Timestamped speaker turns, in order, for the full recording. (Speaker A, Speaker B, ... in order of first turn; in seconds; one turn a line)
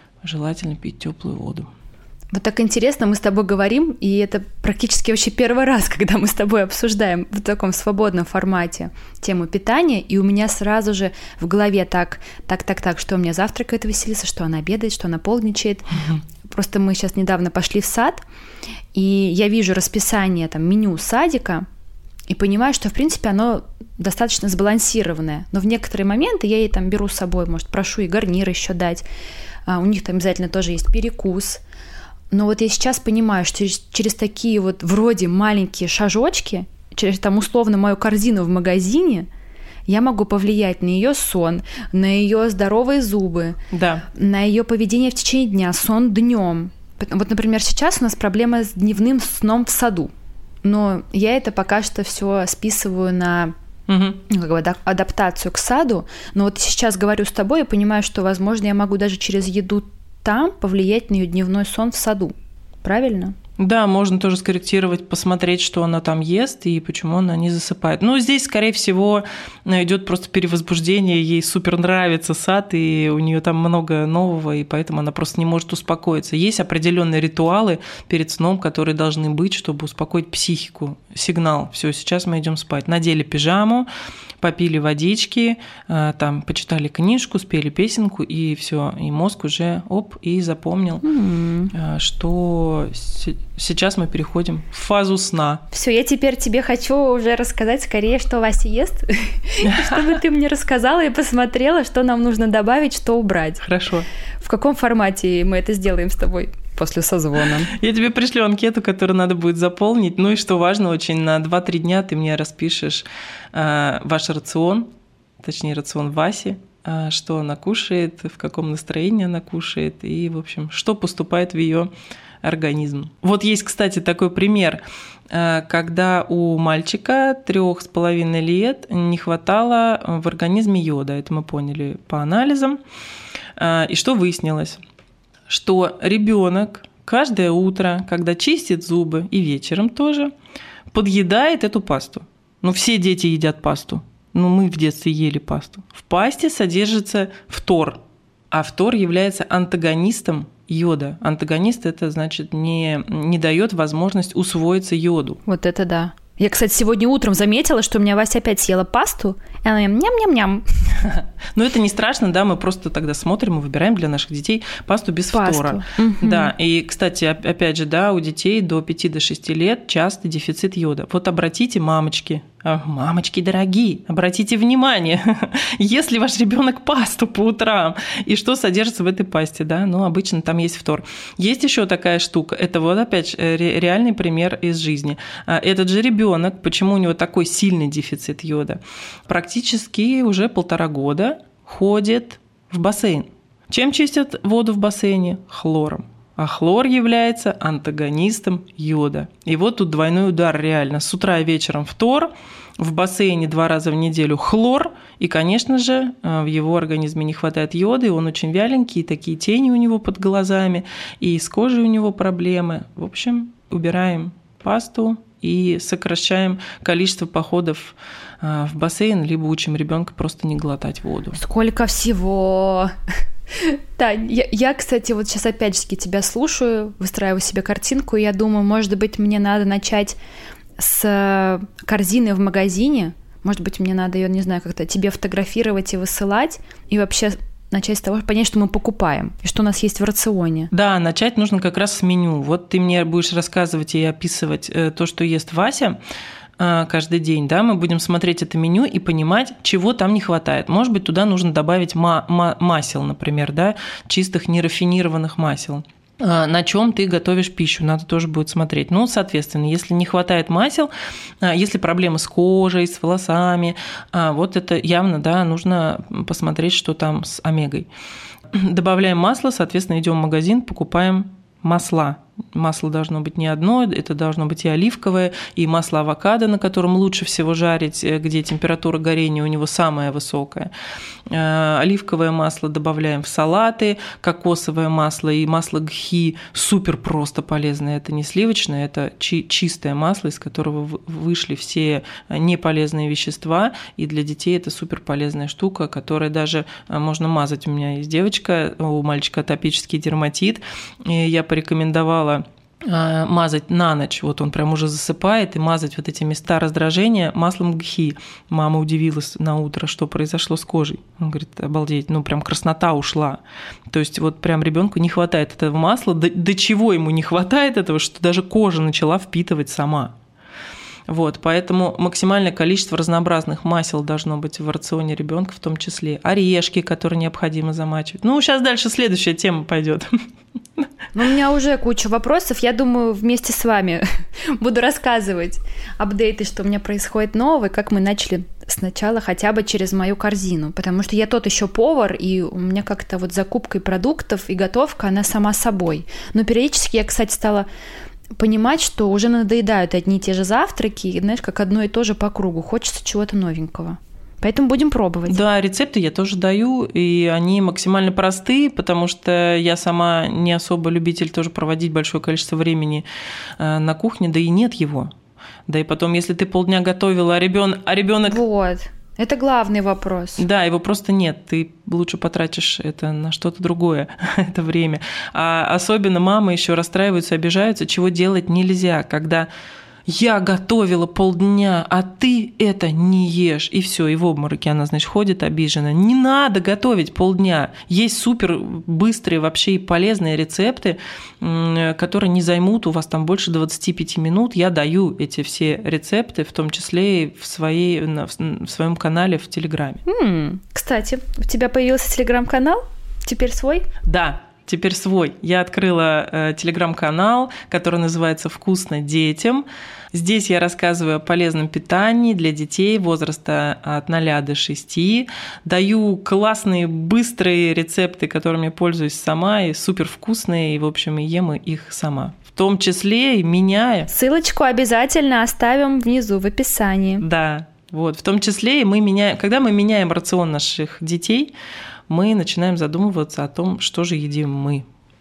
Speaker A: 0.2-1.7
Speaker B: 2.3-18.2
Speaker B: 18.9-21.6
Speaker B: 22.3-29.0
Speaker B: 29.7-31.6
Speaker B: 32.3-39.3
Speaker B: 39.9-43.6
Speaker A: 43.7-44.1
Speaker B: 44.1-50.1
Speaker B: 50.6-53.5
Speaker A: 53.9-54.2
Speaker B: 54.3-63.3
Speaker A: 63.6-83.9
Speaker A: 84.4-91.0
Speaker B: 91.0-91.7
Speaker A: 91.7-95.6
Speaker B: 95.7-103.6
Speaker A: 99.7-100.2
Speaker A: 103.6-104.1
Speaker B: 104.4-107.7
Speaker A: 107.6-114.9
Speaker A: 115.4-121.9
Speaker A: 122.4-132.8
Speaker A: 133.6-134.8
Speaker A: 135.5-140.3
Speaker A: 140.9-148.0
Speaker A: 148.5-155.4
Speaker B: 155.5-160.6
Speaker A: 161.0-221.4
Speaker B: 165.3-166.5
Speaker B: 221.3-222.9
Speaker B: 223.5-230.2
Speaker B: 230.8-240.7
Speaker A: 240.7-246.0
Speaker A: 246.6-260.9
Speaker A: 261.4-267.9
Speaker A: 268.5-280.7
Speaker A: 281.3-320.1
Speaker A: 321.1-330.1
Speaker B: 331.1-347.7
Speaker B: 348.4-355.4
Speaker A: 355.3-363.1
Speaker A: 363.6-365.1
Speaker A: 365.7-368.4
Speaker B: 368.3-370.4
Speaker A: 370.4-379.5
Speaker A: 380.1-400.0
Speaker B: 400.1-403.9
Speaker A: 404.0-424.1
Speaker B: 424.1-427.2
Speaker A: 427.2-431.5
Speaker A: 432.1-434.8